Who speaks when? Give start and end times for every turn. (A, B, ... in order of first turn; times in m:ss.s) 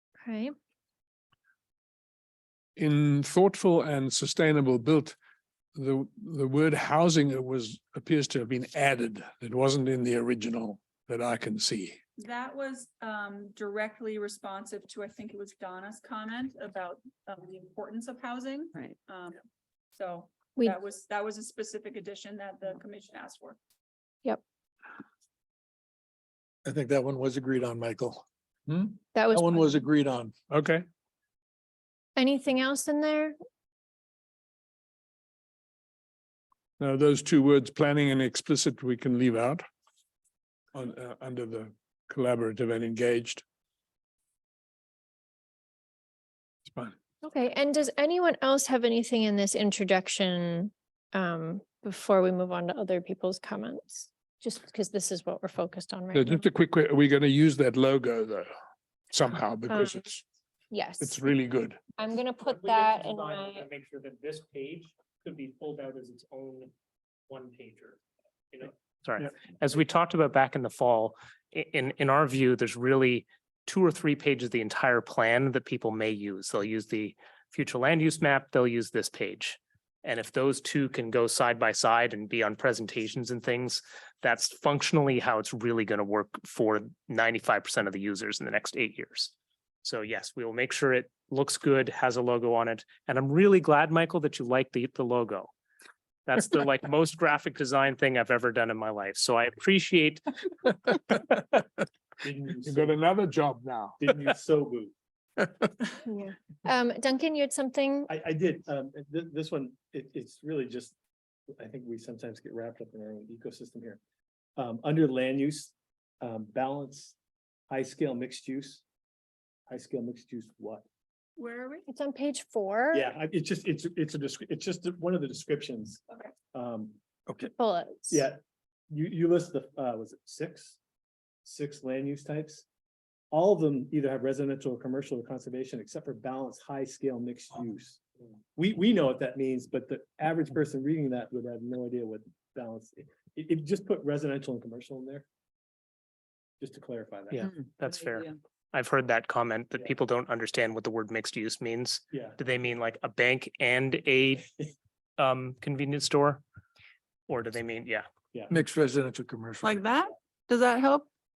0:00.2-0:00.5 A
0:02.8-0:05.2 B
0:05.8-0:12.0 B
0:12.2-0:19.4 C
0:20.0-0:23.6 C
0:26.6-0:30.3 D
0:29.2-0:29.8 A
0:30.5-0:30.8 B
0:32.2-0:33.4 A
0:36.8-0:39.7 B
0:40.7-0:43.4 B
0:46.7-0:46.9 B
0:47.2-0:56.4 A
0:56.1-0:58.5 B
0:59.1-1:00.2 B
0:59.7-1:00.0 A
1:00.7-1:01.2 A
1:01.0-1:01.8 B
1:02.0-1:03.6 A
1:02.5-1:06.7 E
1:07.3-1:08.0 E
1:08.5-1:29.3 E
1:29.8-1:35.5 E
1:36.3-1:40.2 E
1:42.2-1:42.9 F
1:42.6-1:44.1 B
1:44.0-1:44.9 F
1:46.0-1:48.1 A
1:48.1-1:51.0 F
1:51.5-1:54.0 F
1:54.6-1:57.2 F
1:57.7-1:58.8 F
1:59.7-2:00.9 F
2:01.4-2:01.8 C
2:01.9-2:03.1 A
2:02.9-2:07.0 F
2:07.6-2:08.2 A
2:08.1-2:10.8 F
2:11.4-2:12.6 F
2:13.3-2:18.0 F
2:18.6-2:25.3 F
2:26.6-2:27.4 F
2:27.3-2:34.5 E
2:32.1-2:32.4 F
2:35.2-2:36.4 E
2:37.3-2:38.0 E
2:38.5-2:39.8 D
2:39.6-2:41.1 C